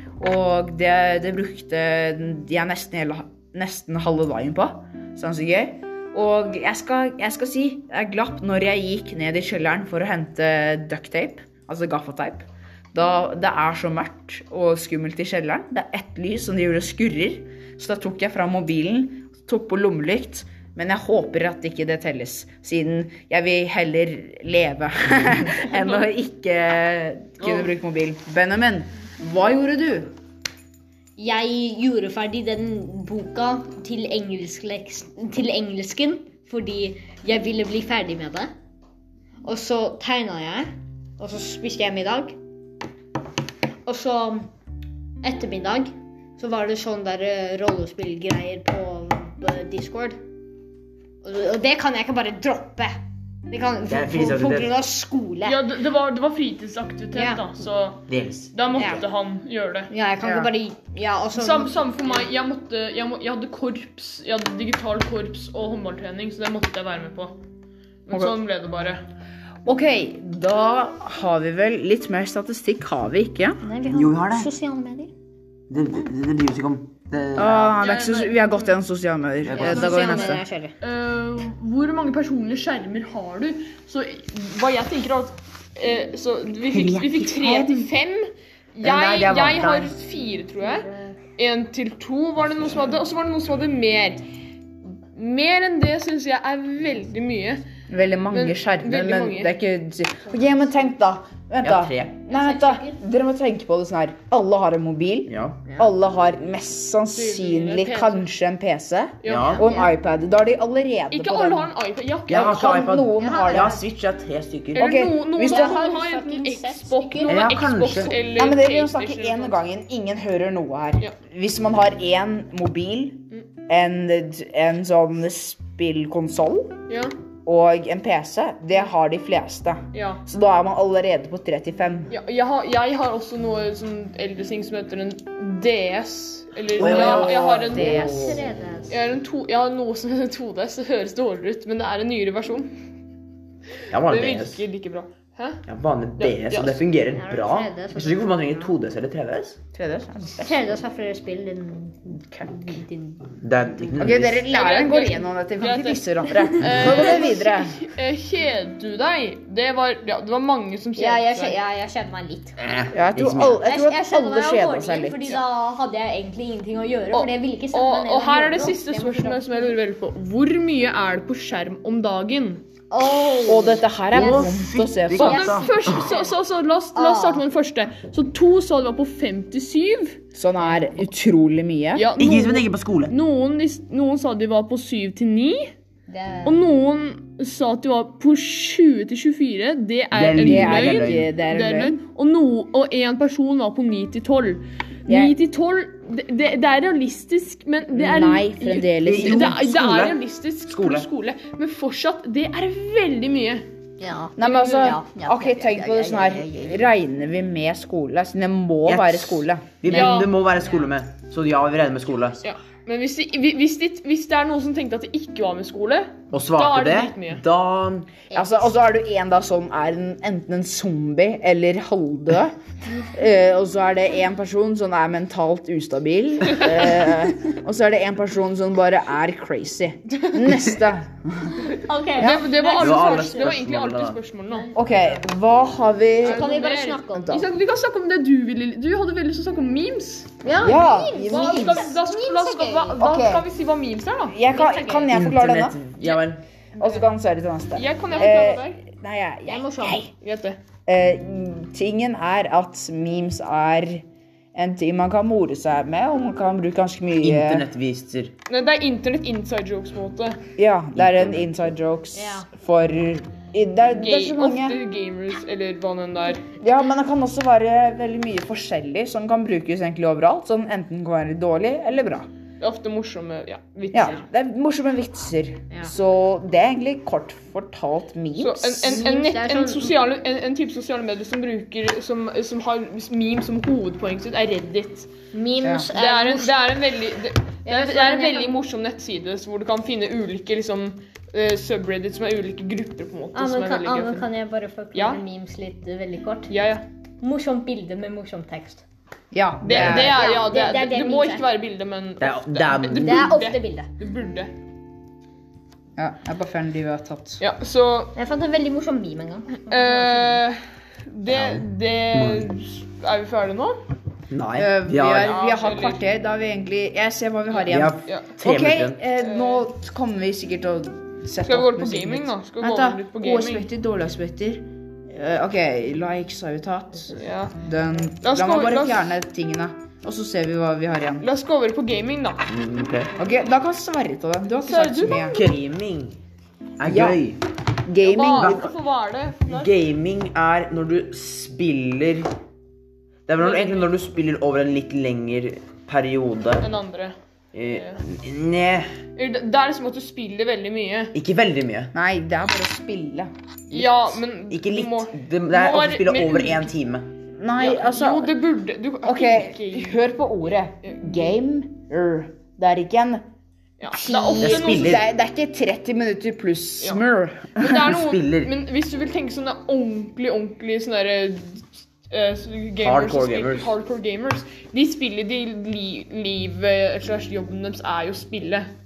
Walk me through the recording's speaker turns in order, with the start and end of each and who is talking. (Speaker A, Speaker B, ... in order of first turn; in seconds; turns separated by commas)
Speaker A: 0.2-30.1, Speaker B: 25.7-26.0, Speaker C: 31.2-38.5, Speaker C: 39.4-42.4, Speaker C: 43.9-44.5, Speaker C: 45.2-50.2, Speaker C: 51.2-52.9, Speaker C: 53.5-55.6, Speaker D: 53.9-54.7, Speaker B: 55.4-59.9, Speaker C: 57.1-57.4, Speaker D: 58.1-58.5, Speaker C: 58.7-59.1, Speaker C: 59.9-62.3, Speaker A: 60.2-60.5, Speaker B: 61.3-67.3, Speaker B: 68.1-69.0, Speaker A: 69.7-73.6, Speaker C: 73.6-75.1, Speaker D: 73.9-74.5, Speaker D: 75.7-77.8, Speaker A: 77.3-80.4, Speaker B: 77.8-78.7, Speaker D: 79.5-80.0, Speaker C: 79.5-80.7, Speaker B: 79.5-94.2, Speaker D: 86.7-87.7, Speaker D: 88.8-90.0, Speaker C: 90.2-91.2, Speaker B: 95.1-97.6, Speaker A: 97.9-111.7, Speaker B: 98.3-99.5, Speaker D: 101.6-102.2, Speaker C: 102.3-103.0, Speaker D: 105.3-105.6, Speaker B: 107.1-108.2, Speaker B: 109.2-109.6, Speaker D: 109.2-109.7, Speaker C: 109.6-109.9, Speaker B: 111.1-112.4, Speaker D: 112.3-114.9, Speaker A: 112.3-113.8, Speaker C: 113.2-113.8, Speaker B: 114.7-119.6, Speaker A: 114.7-115.8, Speaker C: 115.4-117.3, Speaker D: 117.2-118.2, Speaker A: 118.1-126.8, Speaker A: 127.5-132.1, Speaker B: 129.9-130.2, Speaker B: 132.1-138.3, Speaker A: 136.8-138.4, Speaker C: 136.8-139.0, Speaker B: 138.9-142.7, Speaker D: 143.9-144.6, Speaker B: 144.0-145.6, Speaker D: 145.7-149.6, Speaker B: 146.2-146.8, Speaker C: 147.1-148.7, Speaker A: 149.7-150.8, Speaker C: 150.4-154.2, Speaker D: 153.4-154.4, Speaker A: 154.0-157.7, Speaker B: 154.5-156.1, Speaker B: 156.6-161.6, Speaker C: 161.0-162.6, Speaker D: 162.6-163.6, Speaker A: 162.9-165.4, Speaker C: 163.6-169.7, Speaker B: 167.1-172.6, Speaker C: 172.9-174.6, Speaker A: 173.4-175.5, Speaker D: 174.1-176.1, Speaker B: 175.2-180.2, Speaker C: 175.8-176.3, Speaker C: 176.9-177.4, Speaker A: 180.3-182.1, Speaker C: 180.6-180.9, Speaker B: 181.9-185.7, Speaker D: 182.2-183.1, Speaker C: 186.1-186.6, Speaker B: 186.4-203.7, Speaker D: 190.1-191.3, Speaker A: 190.4-191.9, Speaker A: 195.1-195.3, Speaker A: 197.9-199.7, Speaker D: 199.0-201.1, Speaker C: 204.0-206.9, Speaker A: 204.4-209.8, Speaker B: 204.4-204.9, Speaker D: 208.8-212.4, Speaker B: 209.8-210.3, Speaker C: 210.6-210.9, Speaker B: 212.4-217.4, Speaker D: 216.3-218.1, Speaker C: 218.3-218.7, Speaker A: 218.3-222.5, Speaker A: 223.1-231.6, Speaker C: 231.7-233.5, Speaker A: 232.2-232.5, Speaker B: 232.2-234.7, Speaker D: 232.8-234.2, Speaker C: 234.5-235.5, Speaker A: 234.7-236.4, Speaker C: 236.2-237.4, Speaker B: 236.2-240.3, Speaker C: 240.4-243.0, Speaker A: 240.6-241.9, Speaker B: 241.2-244.4, Speaker A: 243.0-243.4, Speaker A: 244.3-245.8, Speaker C: 244.5-245.1, Speaker D: 245.1-246.4, Speaker B: 246.0-247.0, Speaker A: 246.8-250.1, Speaker B: 247.7-248.8, Speaker C: 249.5-250.1, Speaker B: 250.2-250.6, Speaker A: 250.9-254.0, Speaker A: 254.5-257.7, Speaker D: 257.2-258.3, Speaker B: 258.5-260.4, Speaker A: 260.6-264.8, Speaker D: 260.9-261.7, Speaker C: 262.1-262.5, Speaker B: 263.9-266.4, Speaker A: 266.6-272.3, Speaker B: 272.6-274.2, Speaker A: 273.9-279.1, Speaker B: 278.4-285.1, Speaker C: 278.9-279.9, Speaker C: 285.3-286.6, Speaker A: 285.6-285.9, Speaker B: 285.9-294.3, Speaker C: 287.6-288.6, Speaker C: 293.3-296.5, Speaker B: 294.9-295.2, Speaker B: 296.5-296.8, Speaker C: 297.2-298.8, Speaker A: 299.3-300.2, Speaker B: 299.6-304.5, Speaker C: 299.8-301.5, Speaker D: 302.2-303.4, Speaker C: 303.0-303.9, Speaker A: 306.0-307.4, Speaker B: 307.4-308.1, Speaker C: 308.1-310.4, Speaker B: 309.7-310.6, Speaker B: 311.1-313.8, Speaker D: 311.3-312.4, Speaker D: 314.3-315.4, Speaker A: 314.6-331.2, Speaker B: 315.2-316.0, Speaker B: 317.5-318.3, Speaker D: 317.7-319.0, Speaker B: 319.2-319.7, Speaker B: 321.4-323.7, Speaker B: 327.1-327.6, Speaker B: 328.2-329.1, Speaker B: 331.2-332.4, Speaker D: 332.5-333.1, Speaker A: 333.1-335.4, Speaker B: 334.6-335.4, Speaker D: 335.3-336.2, Speaker D: 336.8-337.4, Speaker A: 336.9-337.2, Speaker A: 337.9-338.7, Speaker B: 338.0-339.8, Speaker D: 338.4-338.7, Speaker D: 339.4-342.3, Speaker D: 343.3-346.7, Speaker B: 343.4-343.9, Speaker B: 346.6-347.1, Speaker D: 347.5-348.9, Speaker B: 347.7-348.0, Speaker B: 349.1-351.1, Speaker D: 351.1-351.9, Speaker A: 351.9-353.3, Speaker B: 353.7-356.7, Speaker D: 353.7-357.1, Speaker A: 357.4-358.3, Speaker B: 357.6-360.0, Speaker A: 359.0-363.2, Speaker B: 360.8-361.3, Speaker B: 363.8-364.9, Speaker A: 363.9-367.8, Speaker D: 364.3-365.1, Speaker B: 367.6-378.7, Speaker D: 367.8-368.5, Speaker D: 372.8-373.7